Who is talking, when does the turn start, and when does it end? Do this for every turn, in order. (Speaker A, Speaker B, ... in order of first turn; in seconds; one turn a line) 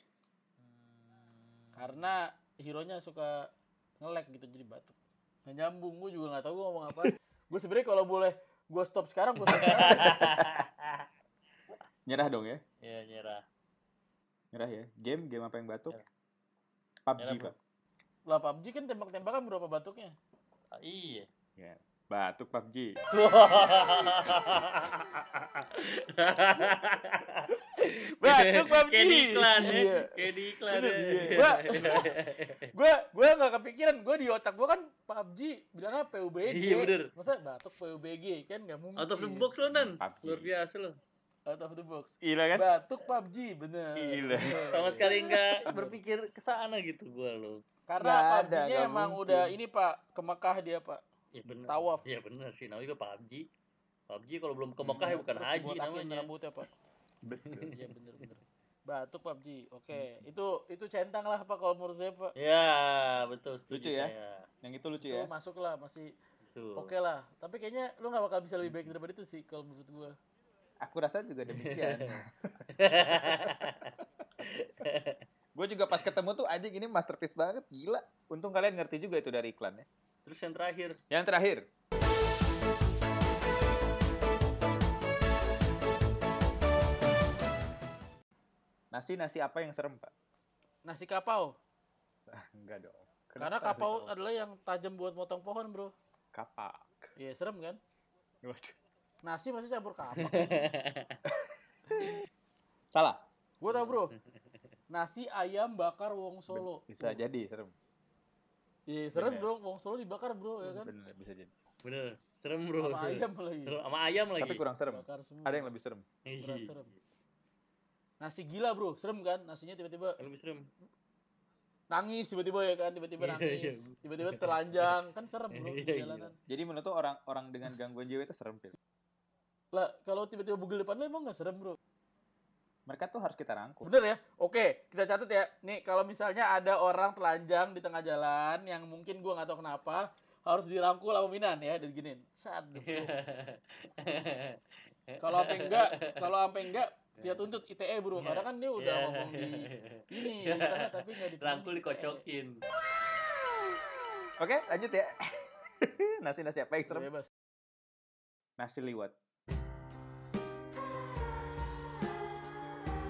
Speaker A: 0.7-2.0
Speaker B: 1.7-4.9
Speaker B: 5.5-10.3
Speaker A: 9.5-11.0
Speaker C: 10.1-10.5
Speaker C: 12.1-12.6
Speaker A: 12.8-13.4
Speaker C: 14.5-15.9
Speaker C: 17.1-17.5
Speaker A: 17.2-17.5
Speaker B: 18.3-20.1
Speaker A: 20.8-21.3
Speaker C: 21.6-23.0
Speaker A: 23.1-27.4
Speaker B: 27.8-29.9
Speaker A: 28.2-32.6
Speaker C: 29.6-30.2
Speaker B: 30.7-39.5
Speaker C: 30.9-32.0
Speaker A: 36.5-37.1
Speaker A: 39.0-41.0
Speaker C: 39.7-40.5
Speaker B: 41.5-46.0
Speaker C: 42.2-42.7
Speaker C: 44.0-45.3
Speaker A: 44.7-47.6
Speaker B: 47.9-51.0
Speaker C: 48.0-49.5
Speaker A: 51.3-53.5
Speaker B: 51.6-52.0
Speaker A: 54.1-56.3
Speaker C: 54.8-55.1
Speaker B: 55.0-56.7
Speaker C: 57.2-57.7
Speaker B: 57.7-62.3
Speaker A: 62.4-64.5
Speaker C: 63.7-65.3
Speaker B: 65.0-66.1
Speaker A: 66.5-66.9
Speaker B: 66.8-70.2
Speaker C: 68.6-68.9
Speaker C: 70.8-72.5
Speaker A: 71.5-72.1
Speaker A: 72.8-74.0
Speaker C: 73.1-73.7
Speaker A: 74.5-75.2
Speaker C: 75.5-79.8
Speaker A: 80.2-81.0
Speaker C: 81.1-81.6
Speaker C: 88.9-90.1
Speaker B: 90.8-91.6
Speaker C: 92.2-94.1
Speaker B: 93.4-95.9
Speaker C: 96.3-97.1
Speaker B: 97.2-97.8
Speaker C: 98.4-98.7
Speaker B: 99.2-100.6
Speaker A: 100.2-101.2
Speaker C: 101.3-102.2
Speaker C: 102.9-103.9
Speaker B: 103.6-104.1
Speaker B: 104.9-107.2
Speaker C: 106.5-107.7
Speaker B: 108.9-110.9
Speaker C: 109.1-109.5
Speaker C: 110.6-111.5
Speaker A: 111.8-114.6
Speaker B: 112.8-113.8
Speaker C: 114.4-116.0
Speaker B: 114.9-115.7
Speaker A: 116.3-116.8
Speaker B: 116.4-116.9
Speaker B: 118.2-120.2
Speaker A: 120.2-120.7
Speaker B: 121.9-126.4
Speaker A: 123.2-124.9
Speaker A: 125.5-126.3
Speaker C: 126.5-128.7
Speaker B: 129.7-131.8
Speaker C: 132.9-133.9
Speaker B: 133.8-143.3
Speaker A: 142.9-144.5
Speaker B: 145.2-152.2
Speaker A: 145.3-146.0
Speaker A: 148.2-152.5
Speaker C: 154.4-157.1
Speaker B: 156.9-157.3
Speaker C: 158.6-159.1